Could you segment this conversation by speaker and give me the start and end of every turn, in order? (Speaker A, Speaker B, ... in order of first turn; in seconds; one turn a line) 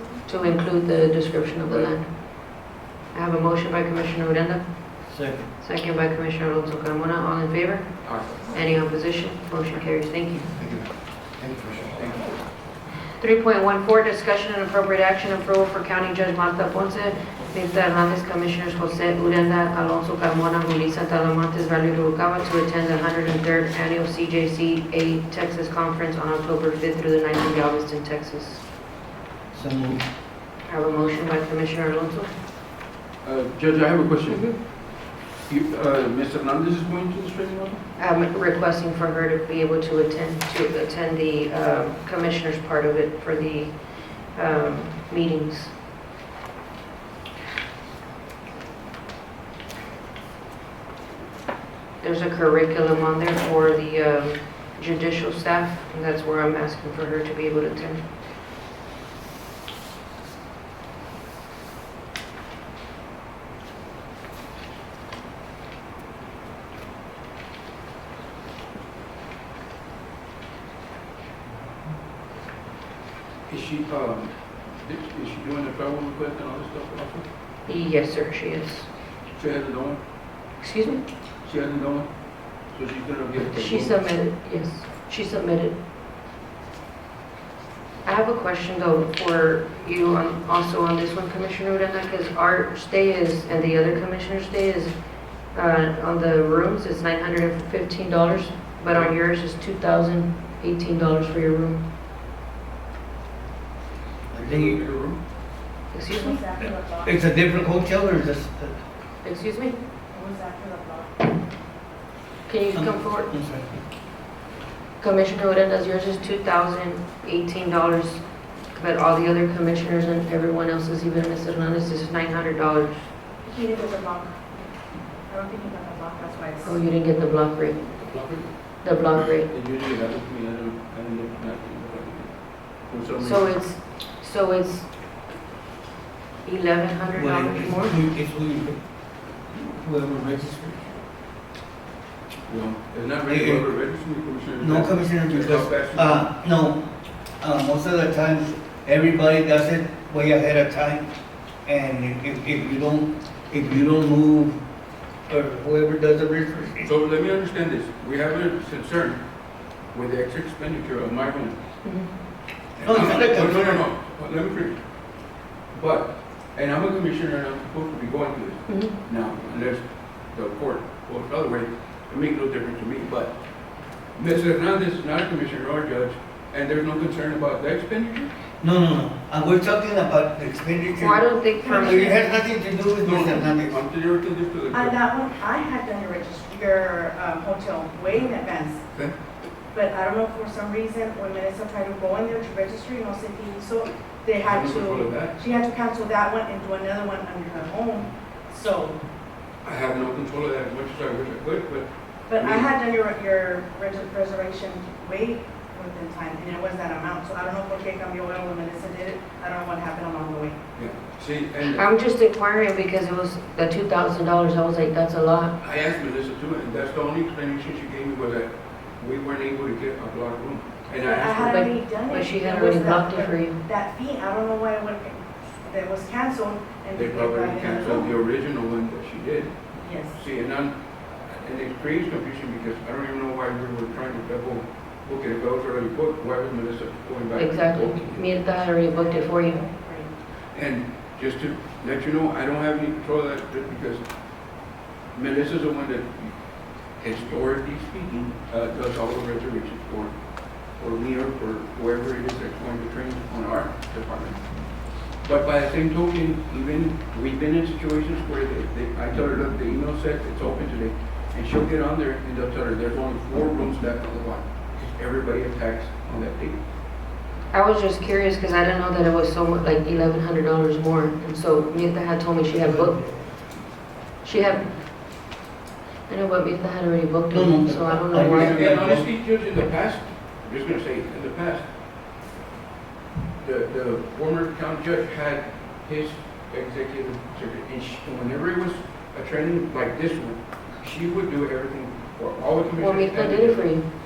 Speaker A: 0.3-10.5
Speaker B: 1.7-1.9
Speaker C: 5.1-5.5
Speaker B: 8.0-8.5
Speaker C: 11.4-11.8
Speaker B: 11.8-12.3
Speaker A: 13.2-28.7
Speaker C: 29.5-30.0
Speaker A: 30.6-32.3
Speaker B: 33.2-37.8
Speaker A: 34.3-34.6
Speaker A: 38.0-45.7
Speaker A: 52.0-58.0
Speaker B: 73.5-77.2
Speaker A: 77.7-78.9
Speaker B: 79.3-80.0
Speaker A: 80.6-81.0
Speaker B: 81.4-84.1
Speaker A: 83.4-85.7
Speaker A: 88.0-101.8
Speaker B: 98.9-99.1
Speaker B: 104.3-105.2
Speaker C: 104.3-104.8
Speaker A: 105.9-106.4
Speaker D: 106.1-107.2
Speaker C: 106.6-108.7
Speaker A: 109.2-109.8
Speaker D: 110.1-111.3
Speaker A: 112.5-113.3
Speaker C: 112.7-113.8
Speaker A: 115.0-123.0
Speaker D: 123.4-124.5
Speaker D: 125.3-126.8
Speaker A: 126.6-127.8
Speaker B: 128.0-133.5
Speaker A: 128.8-129.5
Speaker A: 133.2-134.9
Speaker A: 136.4-138.0
Speaker C: 137.1-138.8
Speaker C: 139.5-140.9
Speaker B: 142.5-146.2
Speaker C: 143.3-143.7
Speaker C: 144.6-146.8
Speaker C: 147.4-151.1
Speaker C: 151.7-154.6
Speaker C: 155.3-156.9
Speaker B: 156.8-159.2
Speaker B: 159.9-161.6
Speaker A: 161.8-162.1
Speaker B: 162.8-164.8
Speaker C: 162.8-163.8
Speaker B: 165.7-173.4
Speaker A: 168.7-169.0
Speaker B: 174.1-178.3
Speaker C: 178.6-183.8
Speaker A: 181.0-182.2
Speaker D: 181.6-182.2
Speaker B: 183.0-185.0
Speaker D: 184.7-188.8
Speaker D: 189.7-199.0
Speaker B: 194.4-195.4
Speaker B: 199.6-202.7
Speaker D: 202.3-210.6
Speaker B: 210.8-211.8
Speaker A: 211.6-215.5
Speaker B: 215.6-221.4
Speaker D: 221.0-228.1
Speaker A: 221.3-223.6
Speaker B: 226.9-229.6
Speaker D: 229.8-230.2
Speaker B: 230.1-238.2
Speaker A: 237.3-239.6
Speaker D: 238.8-240.1
Speaker B: 240.5-244.0
Speaker B: 245.1-246.4
Speaker B: 246.9-254.4
Speaker B: 254.9-266.6
Speaker A: 267.5-273.2
Speaker C: 272.6-273.2
Speaker A: 274.2-274.8
Speaker A: 276.1-278.8
Speaker C: 277.3-279.1
Speaker B: 278.2-281.7
Speaker B: 283.4-293.8
Speaker A: 292.8-293.9